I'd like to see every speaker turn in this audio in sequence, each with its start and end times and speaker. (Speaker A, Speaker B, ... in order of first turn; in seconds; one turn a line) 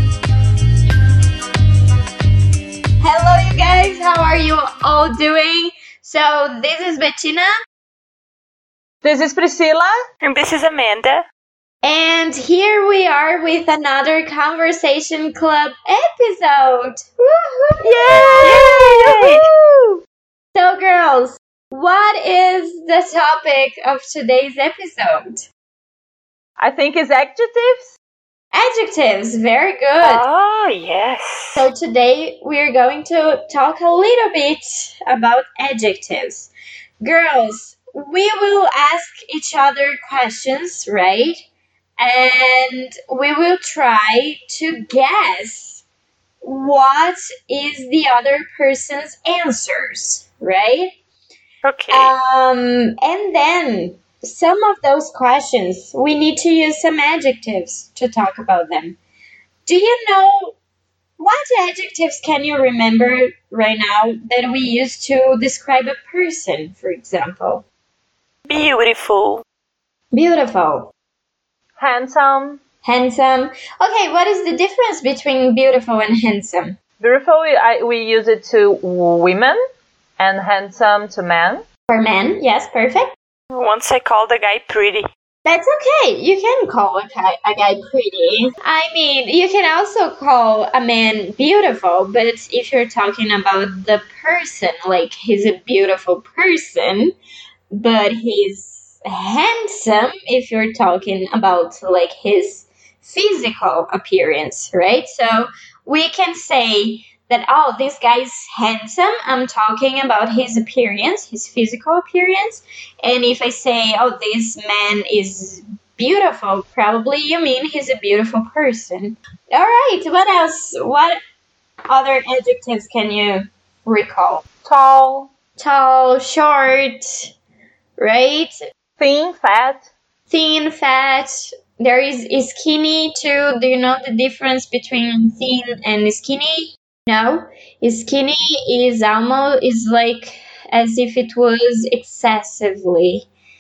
Speaker A: 3.0-7.5
Speaker B: 9.0-9.9
Speaker C: 10.2-11.2
Speaker A: 11.8-18.6
Speaker B: 17.8-20.0
Speaker C: 18.4-19.4
Speaker A: 20.5-25.5
Speaker B: 26.6-27.9
Speaker A: 28.5-30.2
Speaker C: 30.0-31.7
Speaker A: 31.6-36.5
Speaker A: 37.0-41.4
Speaker A: 42.0-45.8
Speaker A: 46.4-50.9
Speaker C: 51.6-52.1
Speaker A: 51.9-59.0
Speaker A: 59.7-60.5
Speaker A: 61.2-67.6
Speaker C: 68.5-69.4
Speaker A: 70.1-70.9
Speaker B: 71.8-72.6
Speaker A: 72.8-76.8
Speaker B: 77.0-79.6
Speaker B: 80.2-81.6
Speaker A: 81.9-83.1
Speaker C: 83.5-85.1
Speaker A: 85.5-97.1
Speaker A: 97.7-121.2
Speaker A: 121.9-124.4
Speaker B: 124.6-125.3
Speaker A: 125.6-127.3
Speaker A: 128.0-128.6
Speaker B: 129.0-129.9
Speaker A: 130.3-143.3